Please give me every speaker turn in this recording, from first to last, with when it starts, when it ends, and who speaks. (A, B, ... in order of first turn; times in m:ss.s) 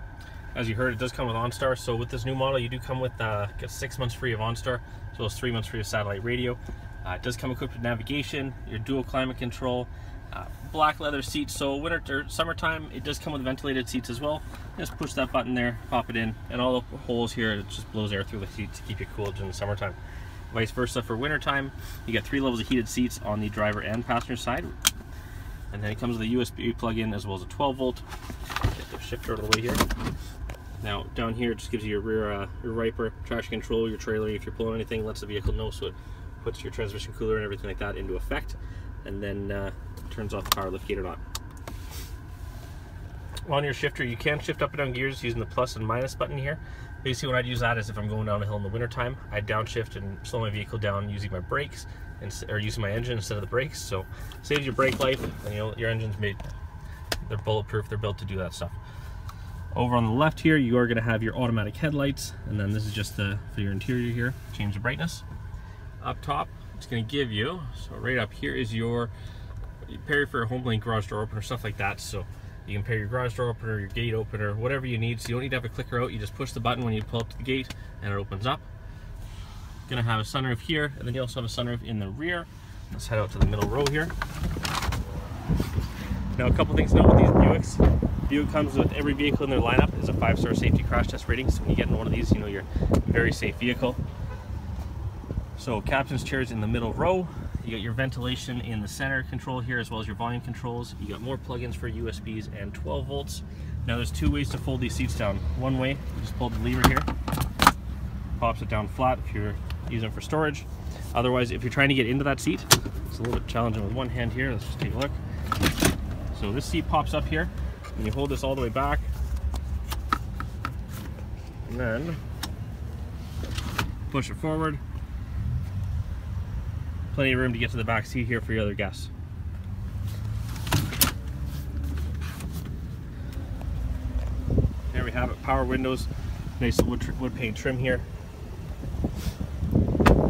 0:00.5-0:20.0 A
0:20.5-0:24.7 A
0:25.7-0:28.0 A
0:28.6-0:29.8 A
0:30.8-0:41.2 A
0:43.4-0:56.5 A
0:57.2-0:58.8 A
0:59.7-1:05.2 A
1:06.0-1:09.1 A
1:09.8-1:18.6 A
1:19.9-1:24.1 A
1:26.4-1:34.0 A
1:35.6-1:47.1 A
1:48.4-1:55.2 A
1:56.3-1:59.1 A
2:01.7-2:02.2 A
2:04.1-2:04.8 A
2:07.1-2:09.1 A
2:14.9-2:18.1 A